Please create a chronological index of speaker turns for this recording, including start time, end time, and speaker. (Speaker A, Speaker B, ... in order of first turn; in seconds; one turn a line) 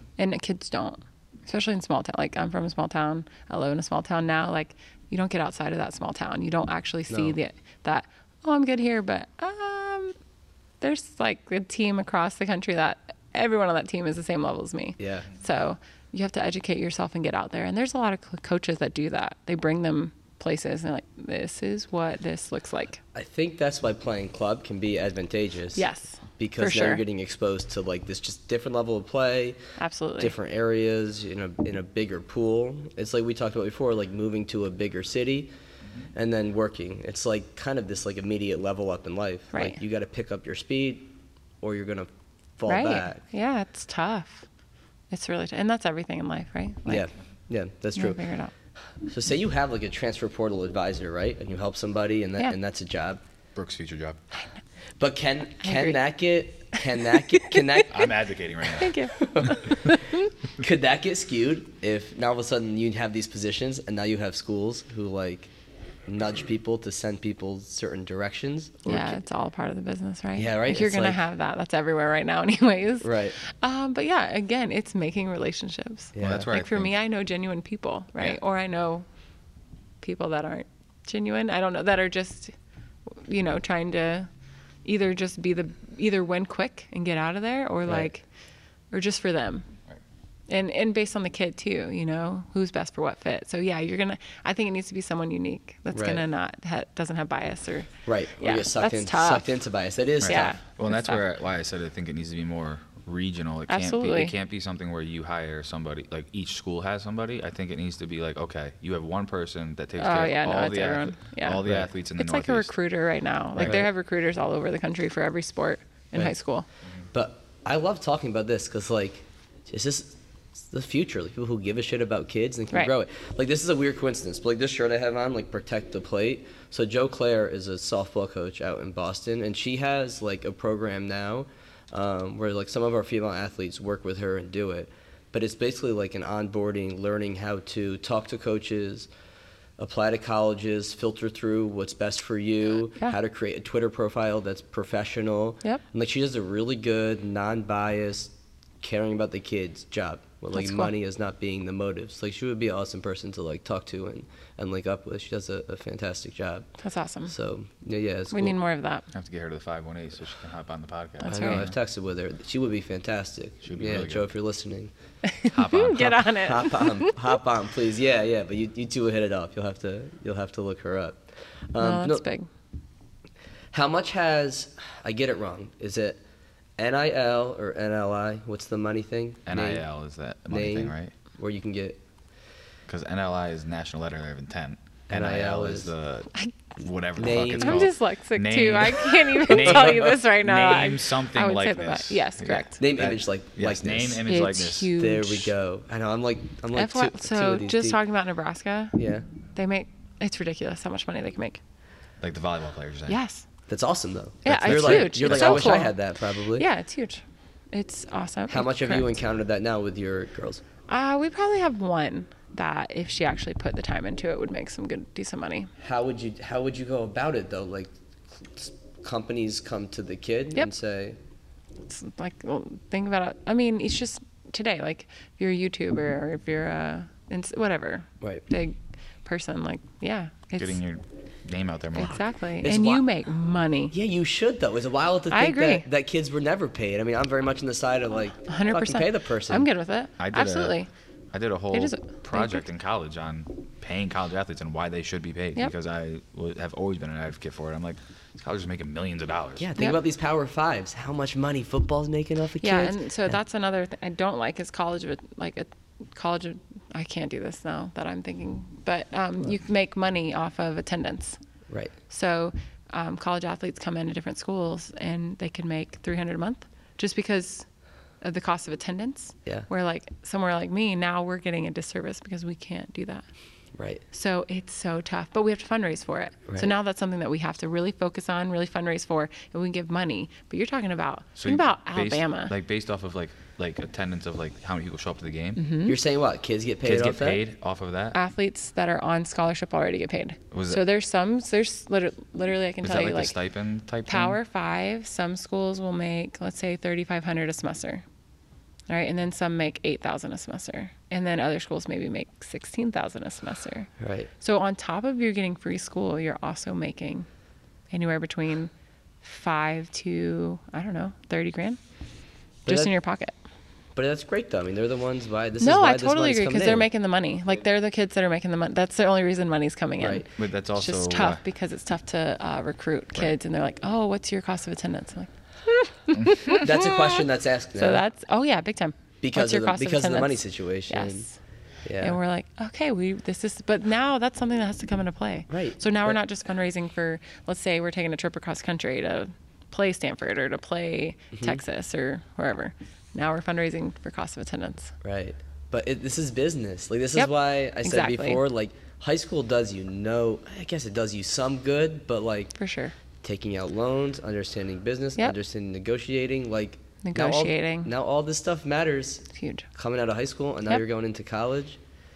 Speaker A: 0.2-10.2
Speaker B: 7.1-7.3
Speaker A: 10.8-23.0
Speaker B: 15.0-15.3
Speaker B: 23.1-25.9
Speaker A: 25.8-27.0
Speaker B: 26.4-29.6
Speaker A: 29.8-30.3
Speaker B: 30.2-35.5
Speaker B: 36.1-43.2
Speaker A: 39.5-39.8
Speaker A: 42.7-44.5
Speaker A: 45.1-47.1
Speaker B: 46.9-48.2
Speaker A: 47.9-48.5
Speaker B: 49.0-53.2
Speaker C: 53.5-54.2
Speaker B: 55.0-58.1
Speaker A: 55.6-56.0
Speaker A: 57.1-57.8
Speaker C: 57.9-59.0
Speaker A: 58.7-60.3
Speaker B: 59.1-65.5
Speaker B: 66.1-69.2
Speaker A: 68.8-79.0
Speaker B: 70.3-71.2
Speaker B: 73.0-73.4
Speaker B: 76.1-76.5
Speaker C: 76.2-76.9
Speaker A: 80.0-82.5
Speaker A: 83.2-84.3
Speaker A: 84.8-88.2
Speaker A: 88.9-89.7
Speaker A: 90.5-99.5
Speaker B: 95.9-96.2
Speaker B: 98.0-100.5
Speaker C: 100.2-112.7
Speaker A: 100.2-101.2
Speaker A: 103.7-104.3
Speaker A: 110.0-111.6
Speaker A: 112.2-116.7
Speaker B: 113.6-113.9
Speaker B: 117.1-139.1
Speaker B: 139.8-156.7
Speaker A: 150.5-150.9
Speaker A: 156.8-157.3
Speaker B: 157.3-158.6
Speaker A: 158.3-159.1
Speaker C: 159.1-161.7
Speaker A: 161.2-161.7
Speaker B: 161.3-164.9
Speaker C: 163.6-164.3
Speaker A: 165.3-167.2
Speaker C: 165.5-166.4
Speaker B: 166.4-172.2
Speaker A: 171.8-172.5
Speaker B: 173.7-176.2
Speaker B: 176.8-179.8
Speaker C: 179.5-181.1
Speaker B: 180.5-182.0
Speaker C: 182.9-195.0
Speaker B: 185.1-185.9
Speaker B: 187.2-187.9
Speaker A: 187.6-192.7
Speaker B: 189.5-190.1
Speaker B: 192.5-194.2
Speaker A: 194.2-195.5
Speaker B: 194.9-198.0
Speaker A: 196.7-199.0
Speaker B: 198.9-199.2
Speaker A: 199.5-201.6
Speaker C: 202.2-203.2
Speaker A: 203.1-203.4
Speaker B: 203.7-206.7
Speaker A: 204.4-206.0
Speaker C: 204.4-205.8
Speaker A: 206.5-209.1
Speaker B: 208.5-210.6
Speaker A: 210.9-215.7
Speaker B: 215.8-221.2
Speaker A: 221.9-230.8
Speaker C: 230.6-232.2
Speaker A: 231.9-233.9
Speaker B: 232.6-233.1
Speaker B: 233.9-239.7
Speaker A: 235.3-235.8
Speaker A: 238.5-240.9
Speaker C: 240.2-240.8
Speaker C: 241.3-249.7
Speaker A: 241.7-242.7
Speaker B: 249.6-253.3
Speaker A: 252.6-261.4
Speaker B: 261.7-261.9
Speaker A: 262.1-267.7
Speaker A: 268.2-273.3
Speaker B: 273.7-274.0
Speaker A: 274.1-282.5
Speaker C: 281.4-285.6
Speaker A: 285.6-286.0
Speaker B: 285.8-287.4
Speaker C: 286.8-288.1
Speaker A: 288.1-293.3
Speaker C: 290.5-290.8
Speaker C: 292.8-294.4
Speaker A: 294.1-298.0
Speaker A: 298.9-307.3
Speaker B: 304.0-304.3
Speaker A: 307.9-311.8
Speaker B: 312.6-312.9
Speaker A: 312.6-313.3
Speaker B: 313.9-316.9
Speaker A: 315.6-327.2
Speaker B: 320.0-320.2
Speaker C: 320.3-321.4
Speaker B: 326.4-328.0
Speaker A: 327.8-331.4
Speaker B: 329.2-331.3
Speaker B: 331.8-332.2
Speaker A: 332.0-344.9
Speaker B: 335.5-336.2
Speaker B: 341.3-341.6
Speaker B: 345.0-352.5
Speaker A: 347.1-348.4
Speaker A: 352.6-352.9
Speaker B: 353.2-361.8
Speaker A: 357.0-357.9
Speaker A: 359.3-359.6